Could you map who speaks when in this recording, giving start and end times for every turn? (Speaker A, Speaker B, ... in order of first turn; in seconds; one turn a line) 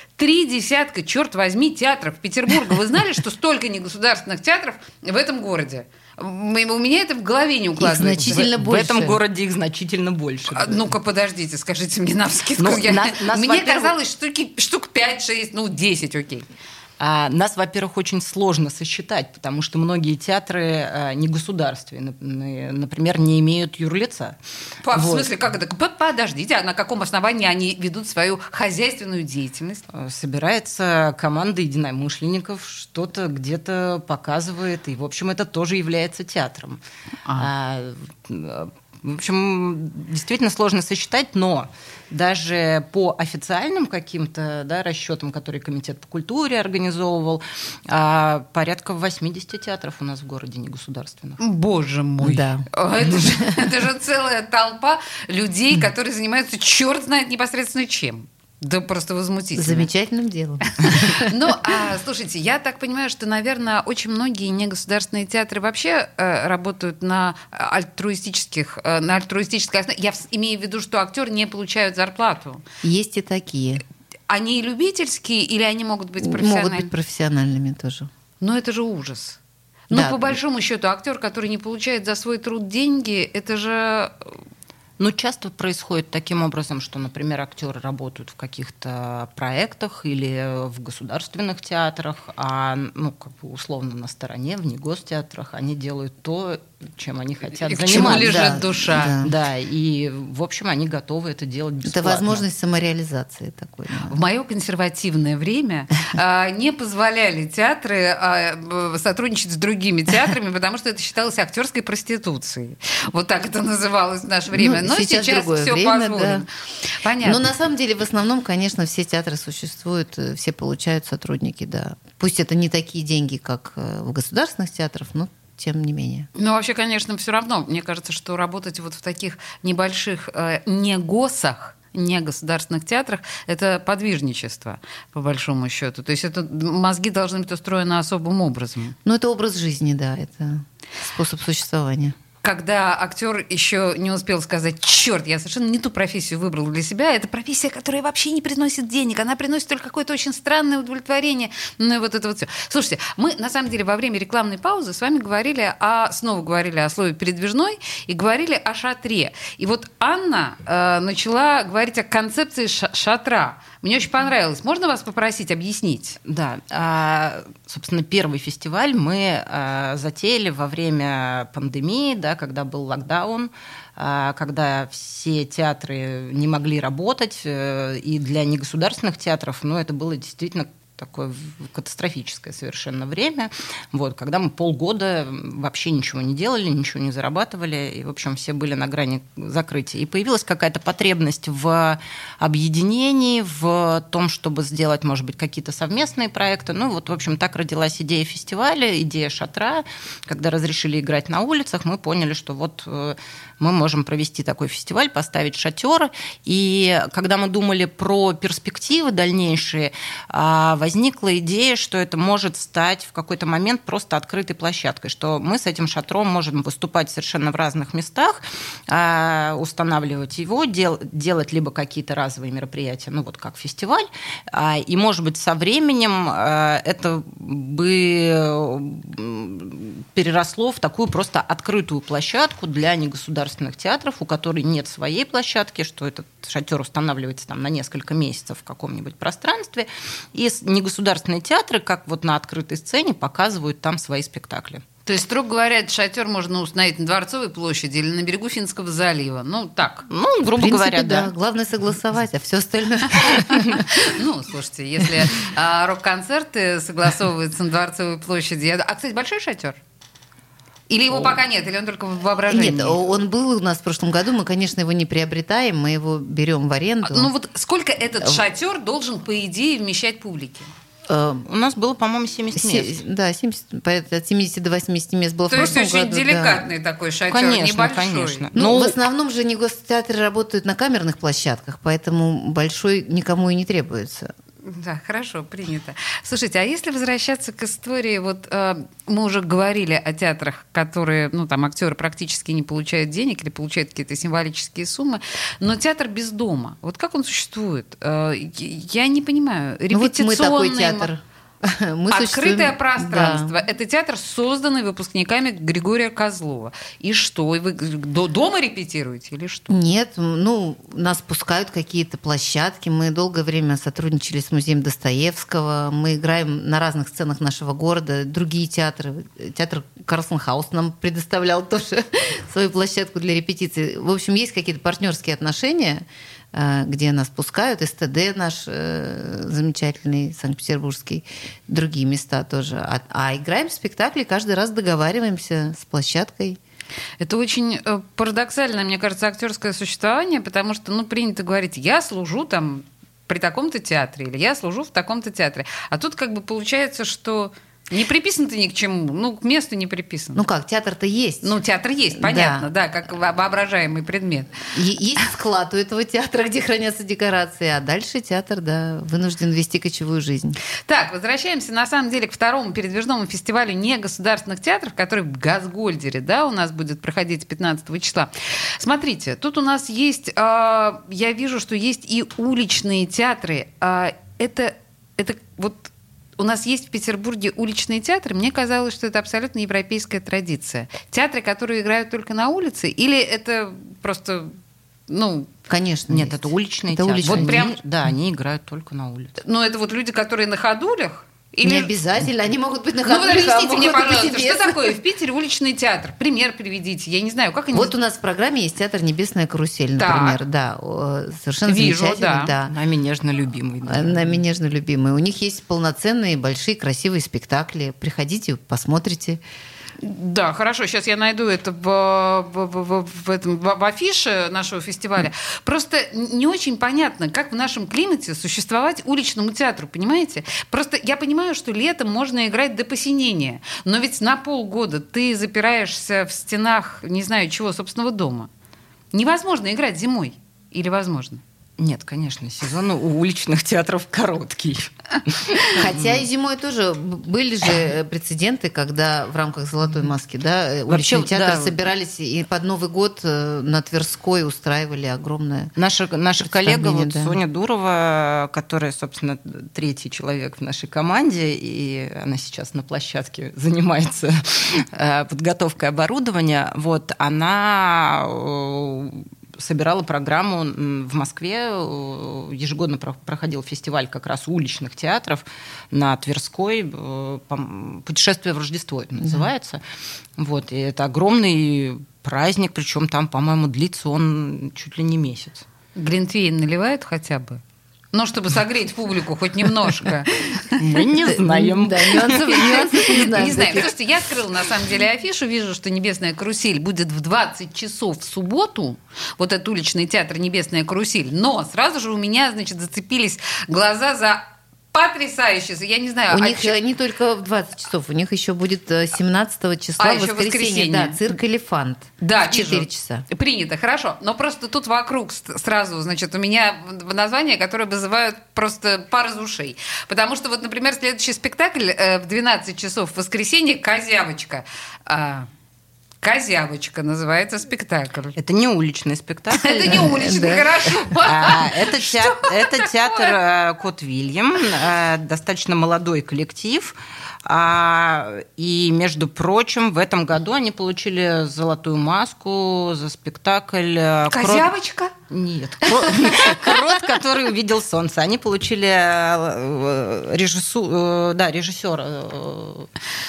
Speaker A: 0.2-8.4
Speaker B: 7.8-9.2
Speaker C: 8.3-10.9
Speaker A: 10.5-16.5
Speaker C: 12.6-13.9
Speaker C: 17.0-24.4
Speaker A: 24.8-29.8
Speaker C: 24.9-25.3
Speaker C: 29.9-36.8
Speaker C: 37.4-51.4
Speaker A: 51.4-59.9
Speaker B: 52.2-52.7
Speaker B: 59.5-61.3
Speaker A: 60.9-72.6
Speaker B: 72.8-73.8
Speaker A: 74.3-76.9
Speaker B: 76.2-78.1
Speaker A: 78.4-84.3
Speaker B: 79.9-80.4
Speaker C: 85.0-102.4
Speaker A: 97.6-99.2
Speaker B: 97.9-99.3
Speaker B: 101.8-104.2
Speaker A: 104.1-117.5
Speaker B: 114.5-116.5
Speaker B: 117.2-126.3
Speaker A: 126.3-139.0
Speaker B: 139.1-142.2
Speaker A: 142.4-166.2
Speaker C: 166.3-244.8
Speaker A: 245.1-250.1
Speaker C: 250.1-251.3
Speaker B: 250.6-253.9
Speaker A: 253.8-259.8
Speaker A: 260.9-263.0
Speaker B: 262.5-267.3
Speaker A: 267.0-270.7
Speaker B: 271.1-271.5
Speaker C: 271.5-273.0
Speaker B: 272.5-276.7
Speaker A: 275.5-278.5
Speaker C: 277.3-279.0
Speaker B: 278.6-284.3
Speaker A: 284.6-301.1
Speaker B: 299.9-303.6
Speaker A: 302.1-309.7
Speaker B: 309.7-336.6
Speaker A: 337.2-350.4
Speaker B: 350.4-351.6
Speaker A: 351.4-354.6
Speaker B: 352.2-352.7
Speaker B: 354.7-360.6
Speaker A: 360.9-384.6
Speaker A: 385.1-385.5
Speaker B: 385.7-387.6
Speaker C: 386.1-389.4
Speaker A: 387.2-387.8
Speaker A: 389.4-391.9
Speaker B: 391.6-394.9
Speaker A: 393.1-397.9
Speaker B: 397.7-402.7
Speaker A: 400.0-400.4
Speaker A: 401.7-402.5
Speaker C: 402.7-404.4
Speaker B: 403.9-409.4
Speaker A: 410.0-428.5
Speaker A: 429.1-431.4
Speaker C: 431.8-436.2
Speaker B: 435.7-445.7
Speaker C: 440.9-441.8
Speaker C: 445.8-469.8
Speaker B: 446.4-447.4
Speaker C: 470.4-475.6
Speaker A: 475.9-480.8
Speaker C: 480.8-483.3
Speaker B: 481.2-483.9
Speaker A: 483.3-496.8
Speaker B: 496.3-503.3
Speaker A: 500.0-501.2
Speaker A: 502.2-515.5
Speaker A: 516.2-518.4
Speaker C: 518.4-520.1
Speaker A: 519.5-523.4
Speaker B: 519.9-520.8
Speaker C: 521.2-534.7
Speaker A: 534.3-535.1
Speaker C: 535.3-542.9
Speaker A: 535.9-536.8